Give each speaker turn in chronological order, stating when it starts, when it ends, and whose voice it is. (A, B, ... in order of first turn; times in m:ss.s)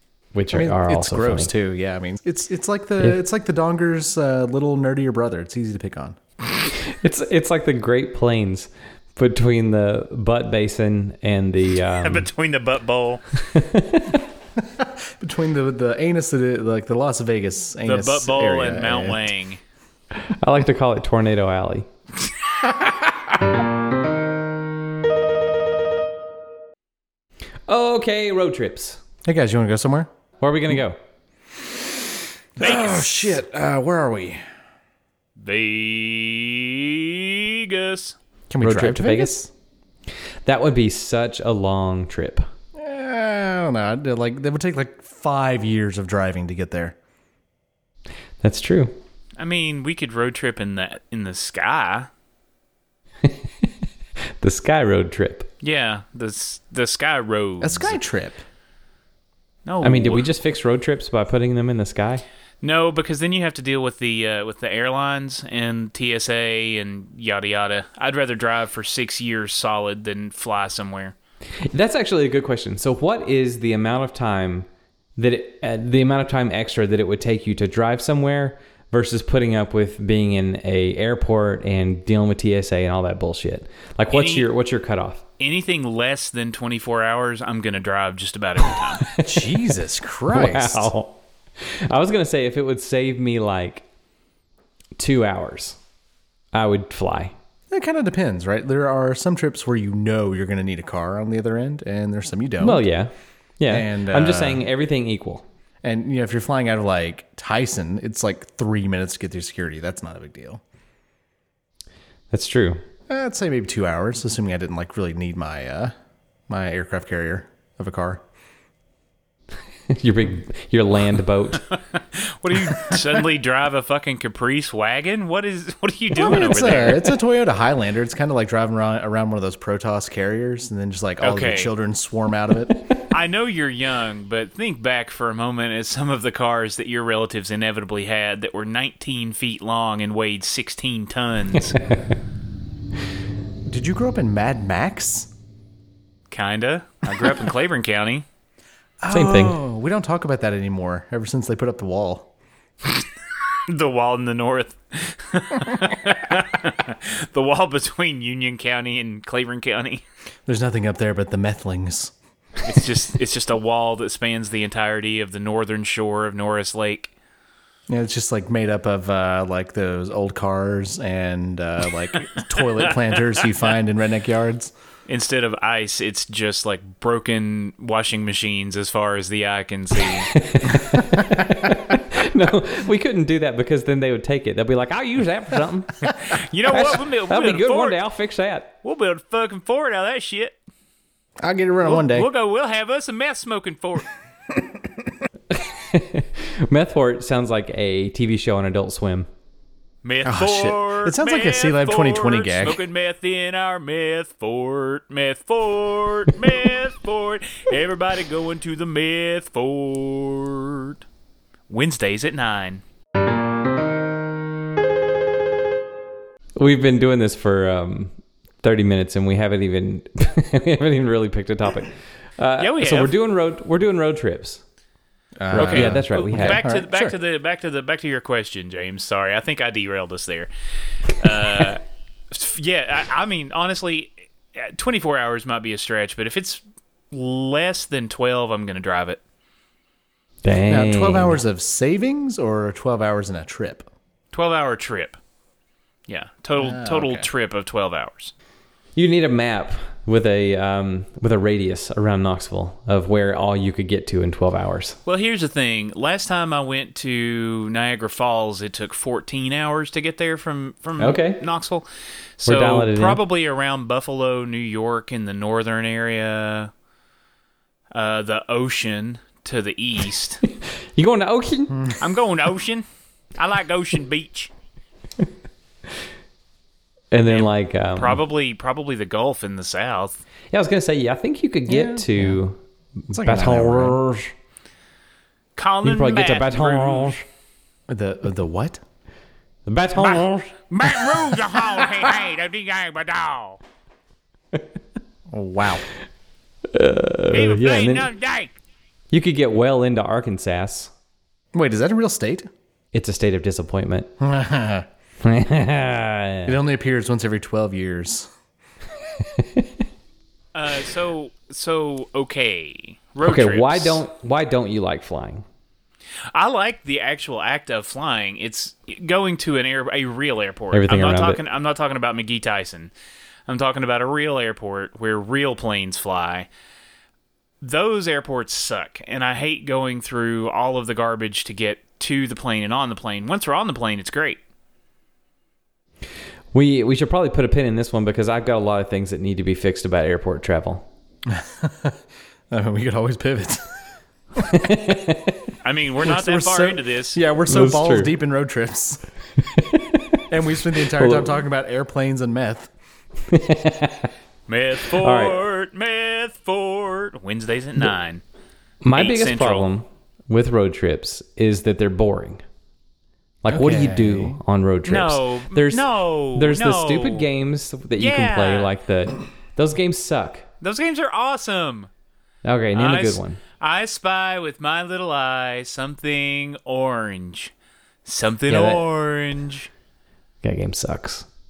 0:00.3-0:01.5 A
0:00.5-0:06.2 B
0:06.7-0:12.3 A
0:11.8-0:13.2 C
0:13.4-0:14.2 A
0:14.6-0:19.2 B
0:17.8-0:19.6 C
0:20.1-0:21.9 A
0:27.7-0:29.0 A
0:29.2-0:30.1 B
0:30.4-0:31.0 A
0:32.6-0:34.4 B
0:32.6-0:33.1 C
0:35.4-0:38.2 C
0:38.5-0:39.5 B
0:38.6-0:39.5 A
0:40.4-0:42.4 A
0:42.8-0:47.0 B
0:48.4-0:48.9 A
0:49.4-0:52.1 C
0:53.2-0:53.7 A
0:54.4-0:55.5 A
0:55.6-0:58.0 C
0:57.6-0:58.4 B
0:59.6-1:00.3 C
0:59.8-1:02.2 A
1:02.6-1:11.2 C
1:11.7-1:25.2 A
1:24.1-1:24.5 C
1:25.4-1:29.0 C
1:29.0-1:29.7 A
1:29.2-1:30.9 B
1:30.3-1:33.8 A
1:35.0-1:35.8 A
1:36.5-1:37.3 A
1:37.7-1:42.8 B
1:42.6-1:45.4 A
1:43.7-1:44.6 B
1:45.8-1:50.6 B
1:52.3-1:52.8 A
1:53.1-1:55.9 B
1:56.5-1:58.2 B
1:59.9-2:01.6 A
2:01.6-2:07.2 C
2:06.1-2:12.9 B
2:11.2-2:11.7 C
2:13.1-2:21.8 C
2:23.6-2:25.3 B
2:26.3-2:28.2 C
2:29.0-2:32.3 B
2:29.1-2:29.6 A
2:33.7-2:40.0 C
2:40.4-2:42.1 B
2:42.6-2:47.1 C
2:47.9-2:54.7 B
2:52.8-2:53.4 C
2:55.1-3:00.3 C
3:00.3-3:06.1 A
3:06.2-3:08.0 C
3:06.7-3:08.7 A
3:08.8-3:10.6 C
3:11.4-3:12.3 B
3:11.8-3:14.1 C
3:15.5-3:19.3 A
3:20.0-3:31.0 C
3:20.2-3:22.8 B
3:31.7-3:32.8 C
3:36.6-3:44.6 A
3:42.6-3:43.1 C
3:45.4-3:47.1 B
3:45.5-3:46.6 A
3:45.5-3:50.5 C
3:51.1-3:59.2 C
4:00.4-4:01.4 A
4:00.7-4:03.9 B
4:04.3-4:05.2 C
4:06.1-4:08.3 C
4:06.6-4:07.3 B
4:08.9-4:15.0 A
4:15.0-4:21.9 C
4:21.0-4:21.4 A
4:22.4-4:26.7 C
4:22.4-4:23.2 A
4:27.9-4:30.4 C
4:30.5-4:31.8 A
4:31.7-4:32.0 B
4:32.0-4:32.8 C
4:33.4-4:34.5 C
4:37.1-4:38.2 A
4:37.3-4:40.2 C
4:40.5-4:44.3 A
4:41.7-4:42.4 B
4:43.1-4:44.0 B
4:45.6-4:47.2 C
4:45.8-4:47.2 A
4:47.9-4:48.8 B
4:49.6-4:50.5 A
4:50.0-4:53.6 C
4:55.3-4:55.8 B
4:56.7-4:58.1 A
4:57.3-4:58.5 C
4:59.1-5:00.9 A
5:01.5-5:02.5 B
5:02.9-5:04.1 A
5:04.2-5:04.9 B
5:05.2-5:06.6 A
5:06.4-5:08.3 B
5:09.2-5:09.7 A
5:10.5-5:14.0 C
5:13.2-5:15.4 A
5:16.3-5:22.9 C
5:20.7-5:21.4 A
5:23.5-5:26.5 C
5:27.6-5:34.4 C
5:36.5-5:40.9 A
5:41.3-5:42.0 B
5:42.5-5:43.7 B
5:44.4-5:45.4 A
5:45.6-5:47.2 C
5:46.0-5:49.0 B
5:47.5-5:48.1 A
5:49.4-5:50.2 A
5:50.3-5:52.7 B
5:50.8-5:51.4 A
5:53.3-5:54.1 A
5:54.5-5:58.2 C
5:55.0-5:55.4 A
5:58.8-6:02.4 A
5:58.9-5:59.7 C
6:03.4-6:10.5 A
6:03.5-6:04.4 B
6:04.8-6:07.3 C
6:08.0-6:08.7 C
6:10.6-6:11.9 C
6:12.4-6:13.4 A
6:12.7-6:17.5 C
6:18.0-6:19.7 C
6:18.5-6:18.8 A
6:20.4-6:21.3 A